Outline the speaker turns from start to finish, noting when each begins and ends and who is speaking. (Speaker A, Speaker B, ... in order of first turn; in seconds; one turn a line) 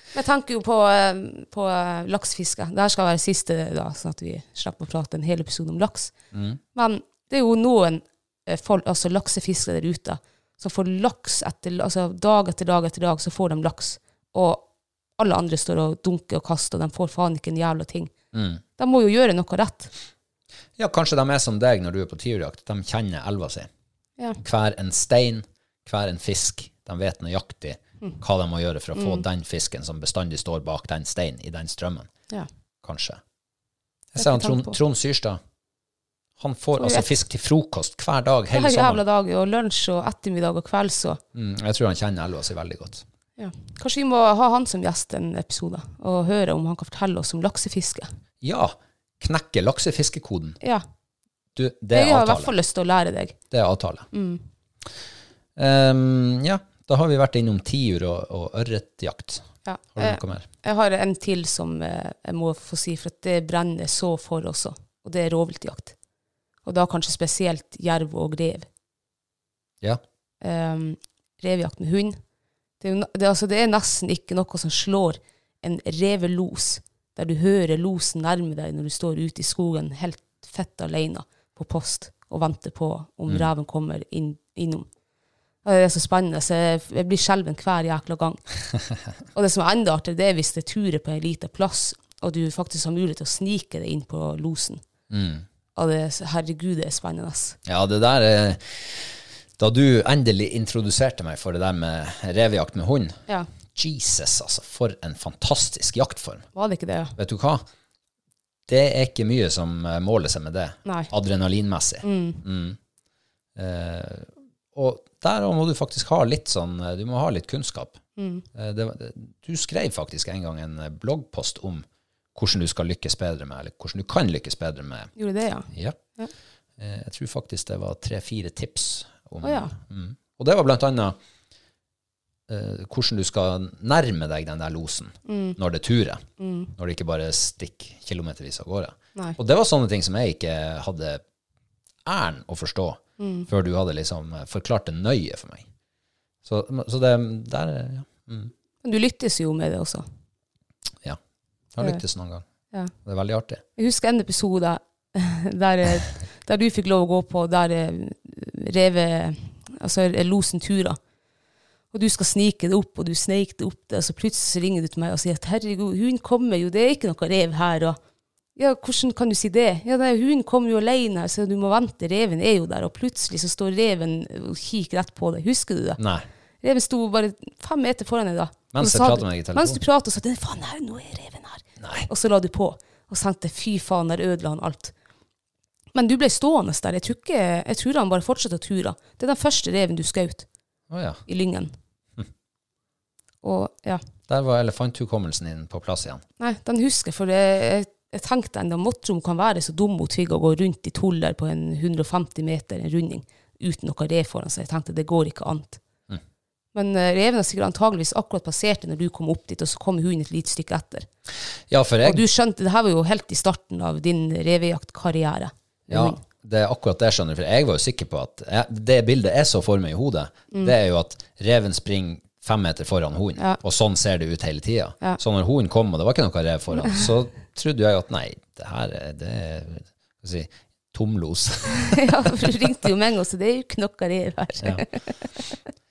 Speaker A: 0.1-6.1
Speaker B: 6.3-6.6
Speaker A: 6.7-14.7
Speaker A: 15.2-18.1
Speaker B: 18.3-18.6
Speaker A: 18.8-19.9
Speaker B: 20.8-23.7
Speaker B: 24.4-32.1
Speaker A: 28.9-29.2
Speaker B: 32.8-33.2
Speaker B: 34.1-35.4
Speaker A: 34.2-34.8
Speaker B: 36.4-39.0
Speaker A: 36.8-37.1
Speaker A: 38.5-41.2
Speaker B: 41.3-43.0
Speaker A: 43.4-48.1
Speaker B: 48.4-50.6
Speaker B: 51.5-52.5
Speaker A: 51.9-53.4
Speaker B: 53.5-54.1
Speaker A: 54.1-54.4
Speaker B: 55.6-60.5
Speaker A: 59.6-65.9
Speaker A: 66.6-68.7
Speaker A: 70.4-72.2
Speaker A: 72.8-84.9
Speaker A: 85.6-88.4
Speaker A: 89.3-94.8
Speaker B: 95.1-95.4
Speaker A: 95.7-97.6
Speaker B: 97.7-103.2
Speaker B: 103.7-106.5
Speaker A: 106.5-107.1
Speaker B: 107.2-107.6
Speaker B: 108.7-112.8
Speaker A: 110.8-111.1
Speaker A: 112.0-112.4
Speaker B: 113.5-118.0
Speaker A: 118.2-118.4
Speaker B: 118.5-125.1
Speaker A: 125.2-126.3
Speaker B: 125.7-126.0
Speaker B: 126.8-131.2
Speaker A: 129.4-129.7
Speaker B: 132.5-136.2
Speaker A: 135.2-135.6
Speaker A: 136.4-136.7
Speaker B: 136.8-141.2
Speaker B: 142.0-145.7
Speaker A: 143.2-143.5
Speaker B: 146.4-148.5
Speaker A: 148.8-150.0
Speaker B: 151.7-152.4
Speaker B: 153.0-153.6
Speaker A: 153.8-161.0
Speaker A: 161.9-168.0
Speaker A: 168.6-176.0
Speaker B: 176.0-176.2
Speaker A: 176.6-184.9
Speaker B: 178.7-179.8
Speaker B: 181.8-182.1
Speaker A: 185.9-190.4
Speaker B: 190.9-191.2
Speaker A: 191.3-191.7
Speaker A: 193.4-194.0
Speaker B: 194.3-196.2
Speaker A: 196.4-205.8
Speaker A: 206.7-211.1
Speaker B: 211.7-212.2
Speaker A: 212.0-216.2
Speaker B: 215.9-232.5
Speaker A: 231.9-235.1